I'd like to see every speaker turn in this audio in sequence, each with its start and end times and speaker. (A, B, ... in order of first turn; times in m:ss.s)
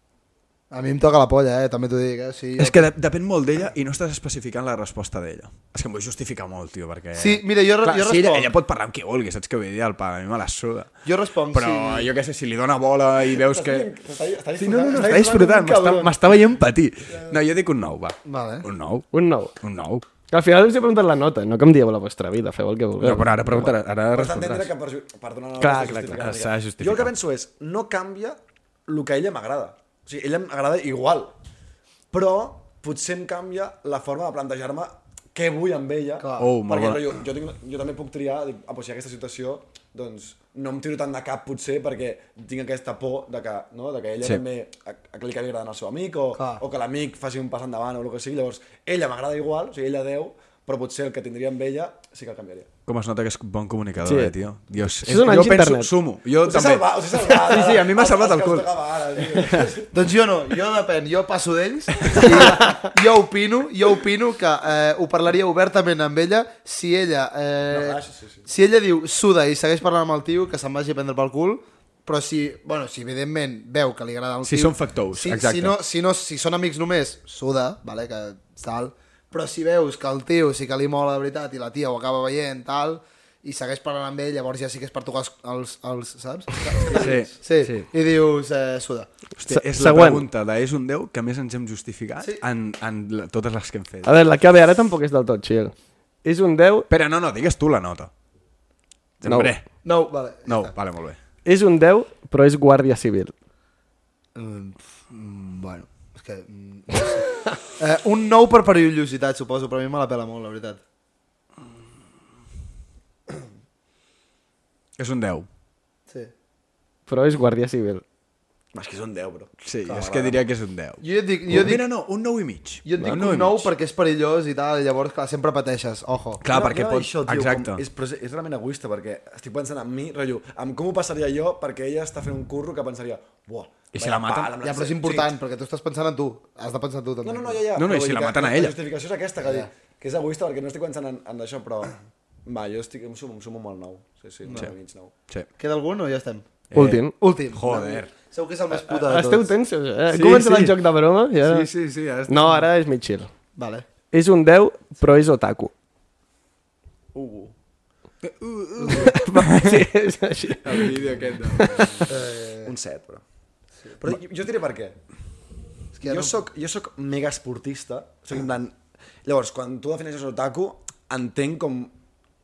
0:00.7-0:02.9 A
0:02.6-0:10.9 B
0:07.1-0:08.5 A
0:11.0-0:12.1 A
0:11.5-0:13.9 B
0:13.2-0:16.2 C
0:14.6-0:20.0 B
0:14.7-0:15.2 A
0:17.1-0:17.4 C
0:18.2-0:18.6 A
0:19.1-0:19.5 D
0:20.3-0:23.7 D
0:23.0-0:24.7 B
0:24.1-0:31.4 C
0:25.6-0:26.2 D
0:26.2-0:27.1 B
0:32.1-0:52.7 C
0:36.2-0:36.5 A
0:36.4-0:37.1 B
0:46.4-0:46.6 A
0:52.8-0:59.6 B
0:54.0-0:54.3 D
0:55.0-0:55.9 D
0:56.4-1:00.0 C
0:59.9-1:29.1 A
1:02.1-1:02.6 C
1:07.7-1:08.4 C
1:14.4-1:15.8 B
1:26.8-1:27.3 C
1:26.9-1:27.9 B
1:29.4-1:34.1 B
1:29.4-1:30.2 D
1:34.0-1:36.9 D
1:36.9-1:38.1 B
1:39.2-1:39.6 B
1:39.2-1:39.5 D
1:39.8-1:40.7 A
1:40.4-1:41.2 B
1:41.4-1:43.3 D
1:44.3-1:50.8 A
1:55.0-1:55.5 B
1:57.1-1:58.0 D
1:58.7-2:00.4 C
1:59.6-2:03.7 B
1:59.8-2:00.2 A
2:01.0-2:01.9 A
2:02.8-2:06.4 A
2:06.4-2:07.8 B
2:06.5-2:15.3 C
2:13.9-2:14.6 B
2:14.6-2:17.6 A
2:17.2-2:25.1 C
2:17.7-2:18.8 B
2:19.4-2:19.7 A
2:24.4-2:24.7 A
2:25.6-2:26.5 A
2:26.7-2:28.1 B
2:26.7-2:27.1 D
2:27.2-2:29.5 A
2:28.7-2:31.7 D
2:30.1-2:30.8 B
2:31.4-2:32.6 B
2:32.3-2:33.3 D
2:33.6-2:33.8 A
2:34.1-2:35.7 D
2:37.1-2:37.5 C
2:38.2-2:39.9 B
2:38.9-2:42.0 D
2:40.6-2:42.1 B
2:42.0-2:43.2 C
2:42.1-2:42.7 A
2:44.0-2:45.0 C
2:46.0-2:46.3 A
2:46.0-2:51.9 C